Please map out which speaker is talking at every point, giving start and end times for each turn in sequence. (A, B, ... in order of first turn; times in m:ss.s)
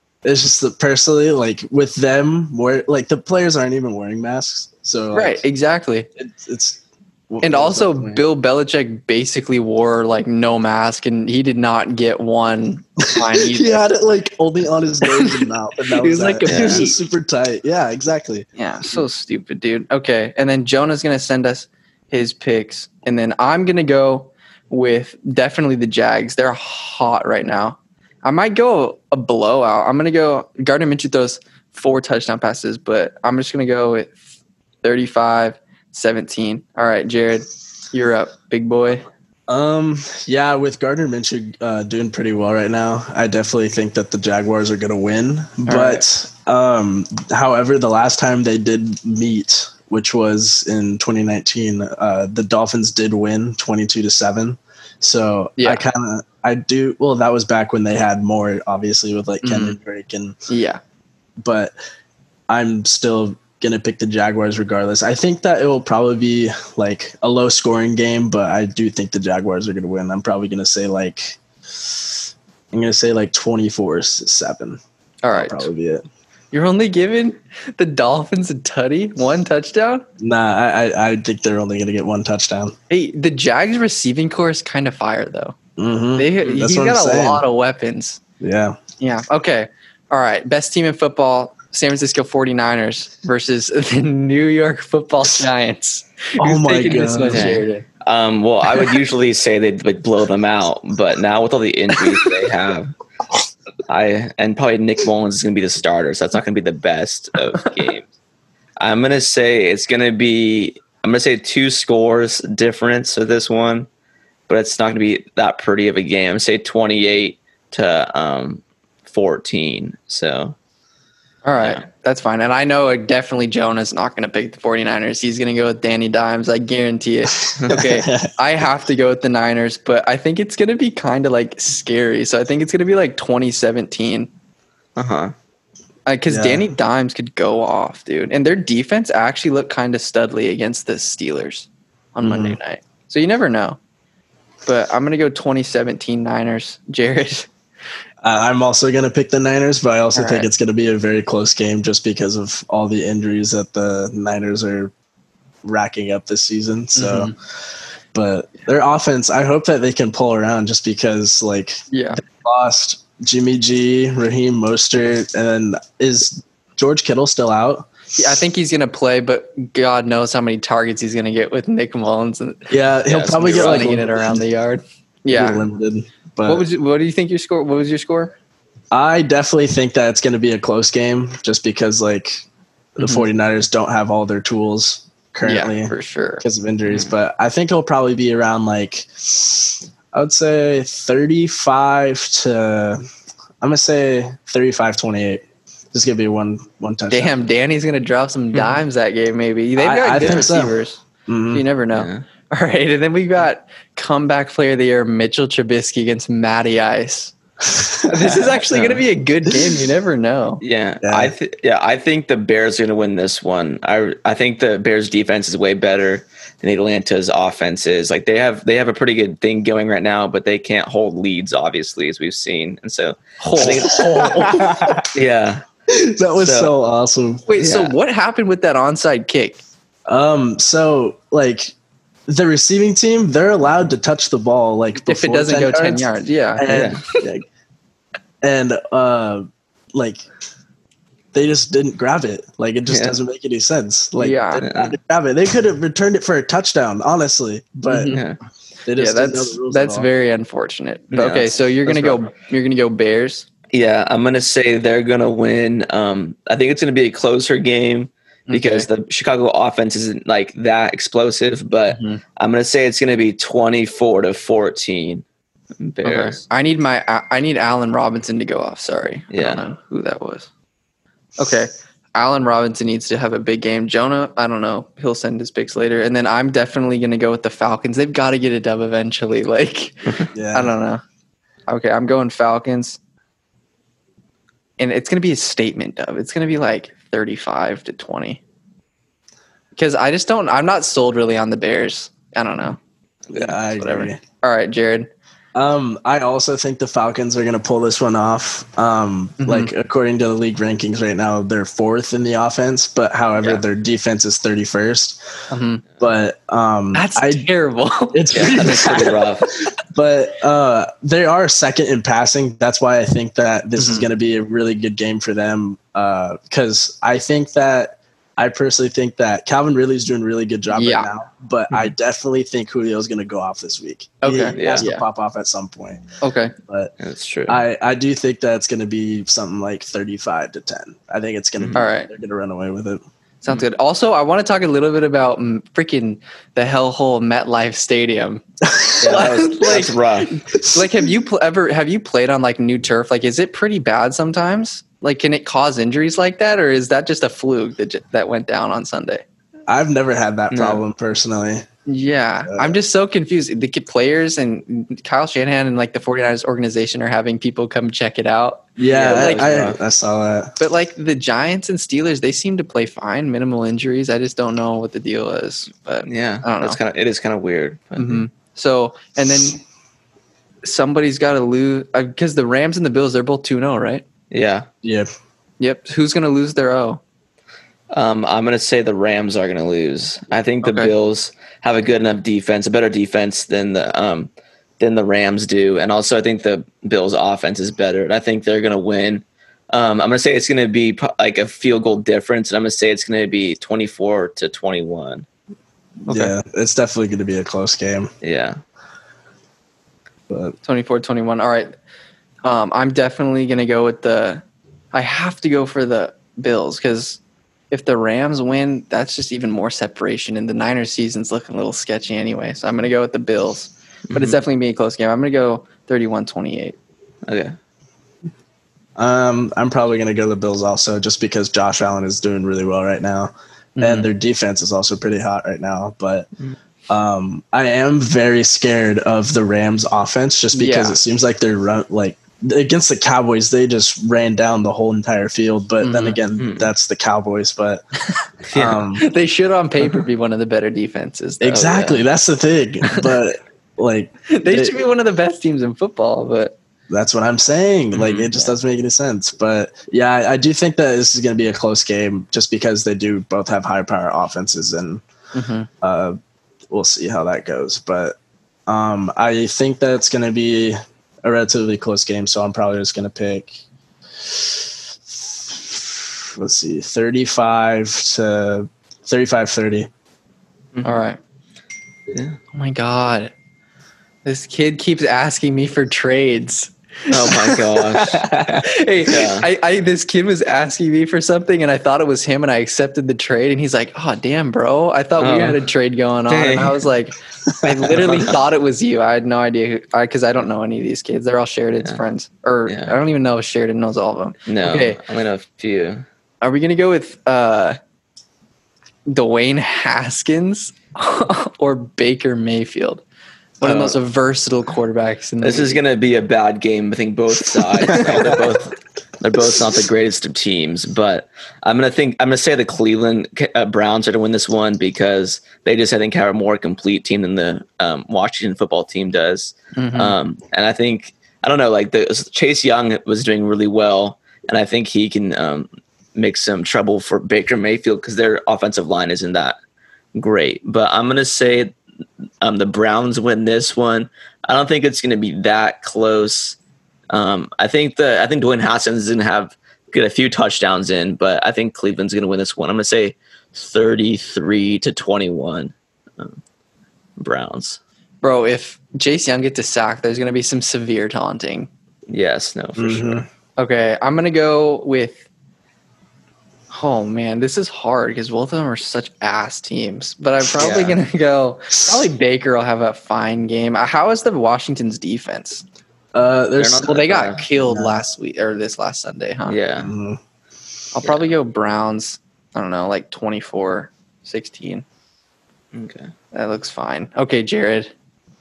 0:00.2-0:05.4 A
0:05.1-0:06.1 B
0:06.2-0:08.2 A
0:07.4-0:13.9 B
0:13.0-0:19.0 A
0:15.1-0:15.4 B
0:16.0-0:17.0 B
0:16.5-0:16.8 C
0:18.6-0:34.2 B
0:34.8-0:39.0 B
0:39.5-1:00.4 A
0:45.7-0:46.0 B
0:55.6-0:55.8 B
1:00.5-1:00.8 B
1:01.4-1:01.7 A
1:02.5-1:12.0 A
1:12.7-1:14.8 A
1:15.2-1:15.7 B
1:15.3-1:16.0 A
1:16.5-1:20.0 B
1:20.2-1:22.7 A
1:22.9-1:25.6 B
1:25.8-1:27.4 A
1:26.2-1:28.2 B
1:28.4-1:28.8 A
1:29.0-1:37.8 B
1:36.4-1:37.6 A
1:37.3-1:42.9 C
1:43.9-1:48.1 C
1:48.8-1:53.9 C
1:54.5-2:00.5 C
2:01.4-2:14.3 B
2:01.6-2:01.8 C
2:07.7-2:08.3 A
2:15.0-2:15.3 C
2:16.1-2:23.8 B
2:16.3-2:16.6 A
2:22.2-2:22.6 A
2:24.6-2:27.5 B
2:28.2-2:34.9 A
2:30.1-2:30.5 B
2:35.6-2:37.3 A
2:36.9-2:37.3 B
2:38.1-2:47.9 A
2:41.9-2:42.2 B
2:48.1-2:52.7 B
2:52.7-2:54.4 A
2:53.1-2:54.0 C
2:53.5-2:55.6 B
2:55.3-2:56.6 A
2:56.4-2:58.3 B
2:58.9-3:02.4 A
3:03.0-3:13.0 A
3:03.0-3:03.2 B
3:05.4-3:06.4 B
3:13.6-3:17.4 A
3:17.1-3:21.0 B
3:18.5-3:18.8 C
3:19.8-3:20.7 A
3:20.2-3:20.5 C
3:21.2-3:21.6 A
3:21.5-3:27.3 B
3:21.9-3:22.2 C
3:27.7-3:28.4 A
3:28.0-3:30.6 B
3:28.7-3:29.0 C
3:30.6-3:44.5 C
3:31.0-3:31.3 A
3:43.4-3:45.0 B
3:43.6-3:45.1 A
3:45.1-3:45.6 C
3:45.9-3:47.4 A
3:46.4-3:46.7 C
3:47.5-3:49.6 B
3:47.6-3:47.9 C
3:50.1-3:51.7 A
3:52.3-3:57.4 A
3:55.0-3:57.0 B
3:56.7-3:57.0 C
3:58.4-4:00.2 A
4:01.3-4:08.2 A
4:02.9-4:03.2 C
4:04.2-4:04.7 B
4:04.6-4:04.9 C
4:07.9-4:08.2 B
4:08.1-4:08.4 C
4:08.8-4:10.1 A
4:09.0-4:13.5 B
4:11.1-4:11.5 C
4:11.8-4:12.2 A
4:13.7-4:25.2 C
4:18.5-4:18.9 B
4:21.9-4:22.2 B
4:25.8-4:26.4 C
4:26.0-4:30.5 B
4:29.3-4:29.6 C
4:31.4-4:41.0 B
4:40.3-4:40.7 A
4:41.7-4:43.0 B
4:44.8-4:48.4 B
4:49.8-4:52.8 B
4:53.3-4:54.2 A
4:53.3-4:55.1 B
4:55.5-5:05.2 A
4:59.4-4:59.7 B
5:05.5-5:05.8 B
5:06.0-5:07.5 A
5:06.9-5:09.2 B
5:08.1-5:09.1 A
5:08.3-5:09.5 C
5:09.9-5:26.0 A
5:13.8-5:14.1 B
5:20.7-5:21.1 B
5:24.2-5:25.0 B
5:24.5-5:24.8 C
5:26.2-5:26.5 B
5:26.7-5:26.9 A
5:27.0-5:27.6 C
5:27.5-5:33.0 A
5:31.7-5:32.1 B
5:33.4-5:38.4 B
5:38.6-5:39.9 A
5:39.0-5:40.3 C
5:39.0-5:49.2 B
5:40.5-5:41.1 A
5:49.7-5:51.6 A
5:50.5-5:50.8 C
5:51.9-5:59.6 B
5:52.4-5:52.8 A
5:58.8-6:00.5 A
5:58.8-5:59.8 C
6:00.6-6:06.8 B
6:06.0-6:08.2 C
6:08.0-6:09.6 B
6:10.6-6:14.0 B
6:14.3-6:14.7 C
6:14.8-6:15.1 A
6:15.6-6:17.0 B
6:17.9-6:35.2 C
6:20.6-6:20.9 B
6:36.1-6:36.3 B
6:36.1-6:38.1 A
6:38.2-6:38.6 C
6:40.3-6:40.5 A
6:40.6-6:41.7 B
6:42.4-6:47.2 B
6:47.7-6:56.8 B
6:54.1-6:54.4 C
6:57.2-6:57.6 C
6:59.0-7:06.3 A
7:03.8-7:04.1 B
7:06.9-7:17.8 A
7:10.5-7:11.0 B
7:15.8-7:16.2 B
7:16.4-7:16.7 C
7:18.5-7:18.8 C
7:18.5-7:19.0 A
7:19.0-7:22.0 B
7:21.4-7:24.8 A
7:24.3-7:26.5 B
7:26.9-7:35.0 A
7:27.9-7:28.3 C
7:35.3-7:35.7 B
7:35.8-7:36.2 A
7:36.7-7:38.2 A
7:38.7-7:43.6 A
7:44.2-7:49.9 A
7:50.7-7:51.0 C
7:50.8-7:51.2 B
7:52.1-7:52.4 C
7:52.5-7:53.3 B
7:54.2-8:15.0 B
7:57.1-7:59.5 C
7:58.2-7:58.6 A
8:05.2-8:05.6 C
8:06.3-8:06.8 C
8:07.4-8:08.1 A
8:07.9-8:08.4 C
8:12.7-8:13.0 C
8:14.4-8:16.0 C
8:16.4-8:17.8 B
8:19.1-8:23.0 B
8:23.6-8:25.8 B
8:23.6-8:24.0 C
8:25.4-8:49.6 C
8:39.8-8:40.2 B
8:50.1-8:51.7 C
8:52.4-8:56.6 C
8:57.1-9:06.4 C
9:07.2-9:07.8 C
9:08.2-9:11.7 B
9:12.1-9:13.2 C
9:12.8-9:13.2 A
9:13.6-9:15.3 B
9:16.7-9:25.6 B
9:20.6-9:21.0 C
9:26.1-9:27.9 A
9:26.6-9:27.4 C
9:26.8-9:29.6 B
9:29.5-9:29.9 C
9:29.8-9:30.2 A
9:30.9-9:34.8 B
9:31.0-9:31.3 C
9:35.7-9:36.1 C
9:36.3-9:37.9 B